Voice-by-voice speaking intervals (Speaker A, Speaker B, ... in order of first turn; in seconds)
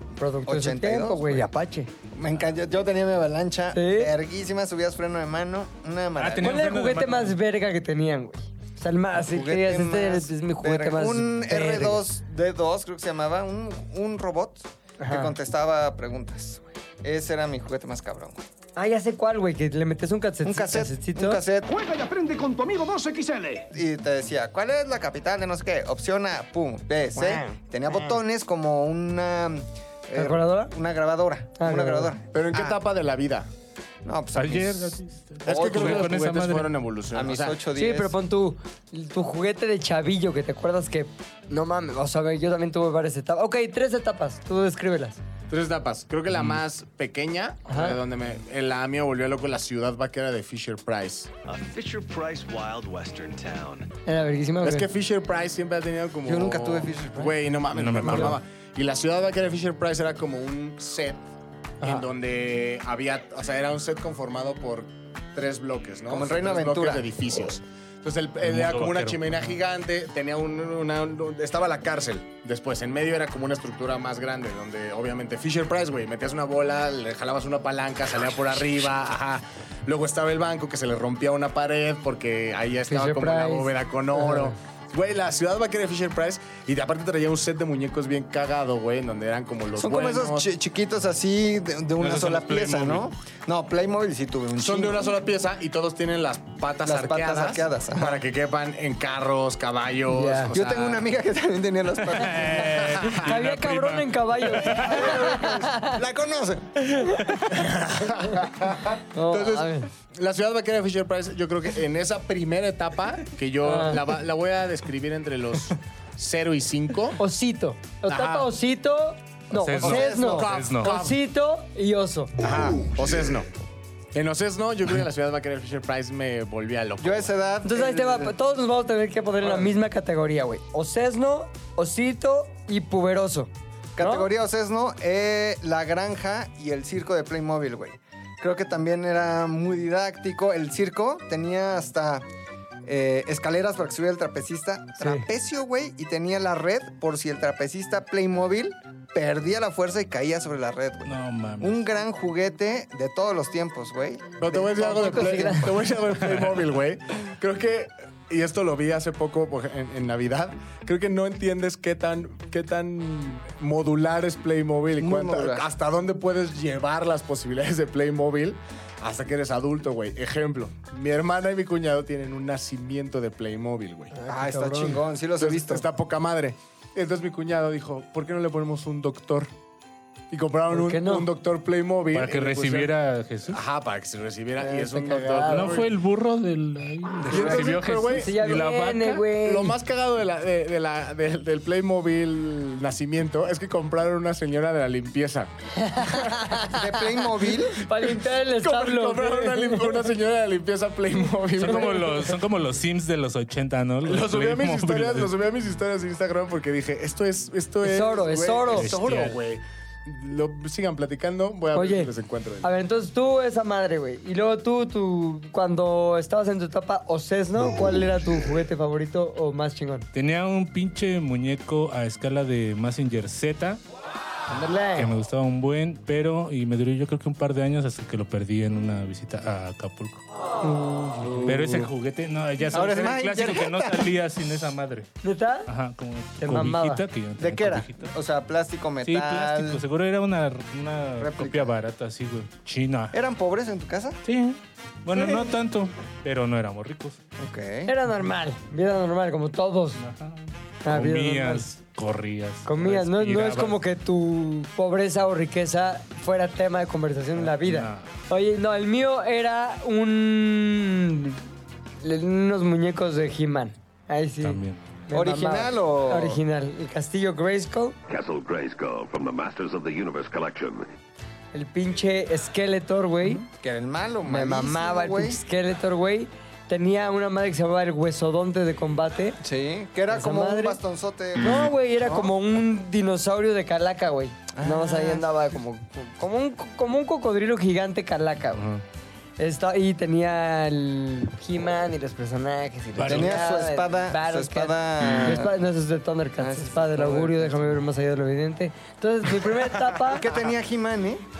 Speaker A: 0.1-1.9, 3.7-4.1, 6.4-12.0, 15.0-15.3, 18.8-21.4, 27.1-27.6, 30.1-30.7, 31.6-32.1, 37.7-45.2, 47.7-48.0, 54.0-54.9, 61.8-62.1, 82.9-84.5, 100.1-100.5, 103.2-106.0, 109.1-109.9, 113.6-114.0, 117.2-122.3, 127.6-134.3, 145.0-145.3, 154.8-155.7, 174.1-175.0, 180.7-181.3, 184.6-185.9, 187.2-189.7, 195.8-200.0, 207.8-208.9, 211.7-212.1, 212.6-220.1, 224.5-225.1, 230.6-231.9, 235.2-235.7, 236.4-237.0, 247.9-250.0, 250.8-251.7, 252.7-261.4, 262.0-268.0, 271.5-273.4, 274.2-279.4, 280.1-280.8, 281.4-288.6, 289.4-300.3
Speaker B: 0.5-1.5, 2.1-6.8, 9.2-18.4, 20.4-21.7, 23.7-32.8, 34.0-36.2, 37.1-38.2, 56.2-57.5, 66.1-67.1, 89.7-95.1, 96.8-98.2, 100.5-103.0, 104.6-107.1, 119.8-120.6, 127.0-128.3, 133.9-142.2, 142.8-155.9, 165.0-165.7, 174.3-175.8, 196.7-197.8, 232.7-234.1, 237.4-239.8, 241.2-241.8, 243.1-244.2, 247.4-247.9, 265.1-266.4, 273.2-275.4, 279.4-282.3, 284.5-285.5, 293.0-295.6, 296.4-297.7, 300.0-301.2
Speaker C: 6.2-7.3, 34.3-36.8, 46.3-46.6, 57.7-58.4, 68.4-69.5, 92.0-93.1, 102.0-105.1, 119.5-120.9, 151.0-151.8, 156.2-156.7, 182.1-183.6, 185.4-189.3, 201.6-205.3, 208.7-209.4, 220.1-223.8, 224.9-230.2, 231.4-235.1, 235.7-238.1, 239.0-243.1, 244.2-247.2, 250.0-253.8, 257.4-258.1, 264.4-264.8, 292.9-293.4
Speaker D: 21.6-23.7
Speaker E: 32.3-33.5, 35.4-37.6, 45.5-51.3, 54.6-61.2, 61.8-90.5, 94.6-101.0, 103.0-103.3, 104.8-105.7, 107.5-117.2, 118.0-118.5, 119.8-121.2, 122.4-123.5, 124.1-127.3, 154.4-174.2, 175.4-179.5, 180.3-182.9, 183.5-185.9, 187.3-188.3, 189.4-196.6, 197.9-202.3, 204.0-212.7
Speaker F: 51.5-53.9
Speaker G: 268.1-270.9